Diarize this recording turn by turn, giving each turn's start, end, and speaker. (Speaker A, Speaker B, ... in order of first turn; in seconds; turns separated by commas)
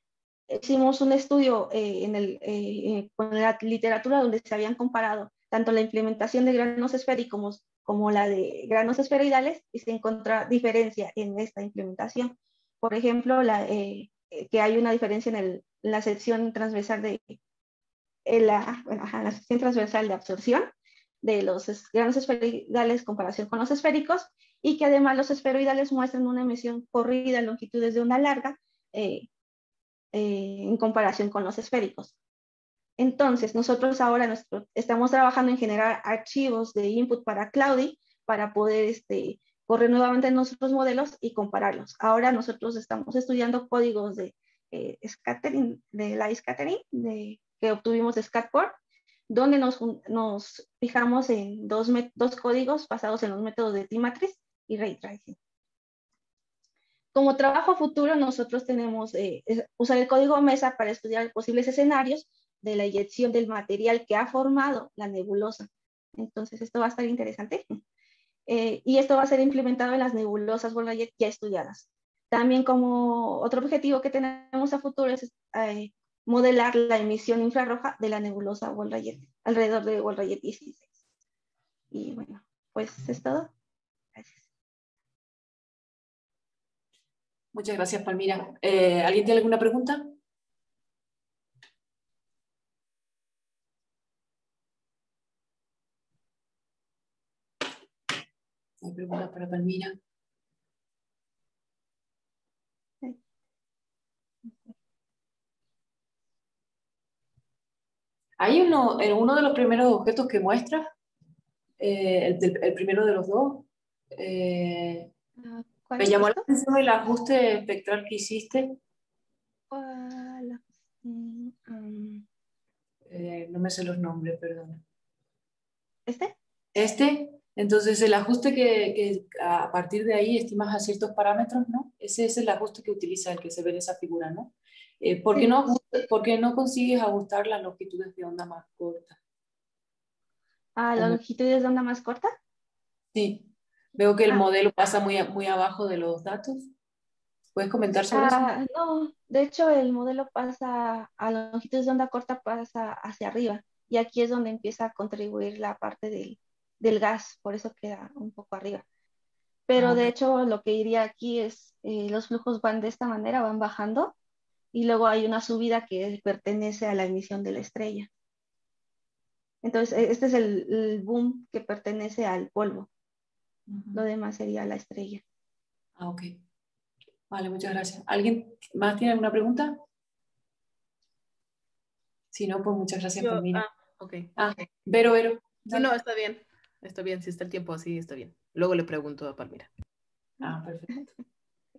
Speaker A: 0.5-17.4, Speaker A: 18.2-20.7, Speaker A: 21.2-29.3, Speaker A: 30.1-32.1, Speaker A: 33.0-48.8, Speaker A: 49.3-55.4, Speaker A: 57.1-67.8, Speaker A: 68.5-80.9, Speaker A: 81.9-83.5, Speaker A: 84.1-84.4, Speaker B: 87.5-90.1, Speaker B: 98.8-100.0, Speaker B: 108.4-110.9, Speaker B: 111.8-115.1, Speaker A: 115.4-116.4, Speaker B: 116.0-118.8, Speaker A: 119.7-122.2, Speaker B: 123.1-124.8, Speaker A: 126.1-126.3, Speaker B: 126.7-139.2, Speaker A: 135.3-135.8, Speaker A: 140.8-142.3, Speaker B: 143.1-146.7, Speaker B: 147.5-148.5, Speaker A: 148.1-158.8, Speaker A: 159.7-164.1, Speaker B: 159.8-160.1, Speaker A: 164.7-168.1, Speaker A: 169.6-172.9, Speaker B: 173.7-174.0, Speaker A: 173.9-175.2, Speaker B: 176.0-176.4, Speaker B: 177.3-179.8, Speaker B: 182.3-183.6, Speaker C: 183.2-184.3, Speaker B: 184.3-185.9, Speaker C: 185.7-189.7, Speaker B: 190.4-191.1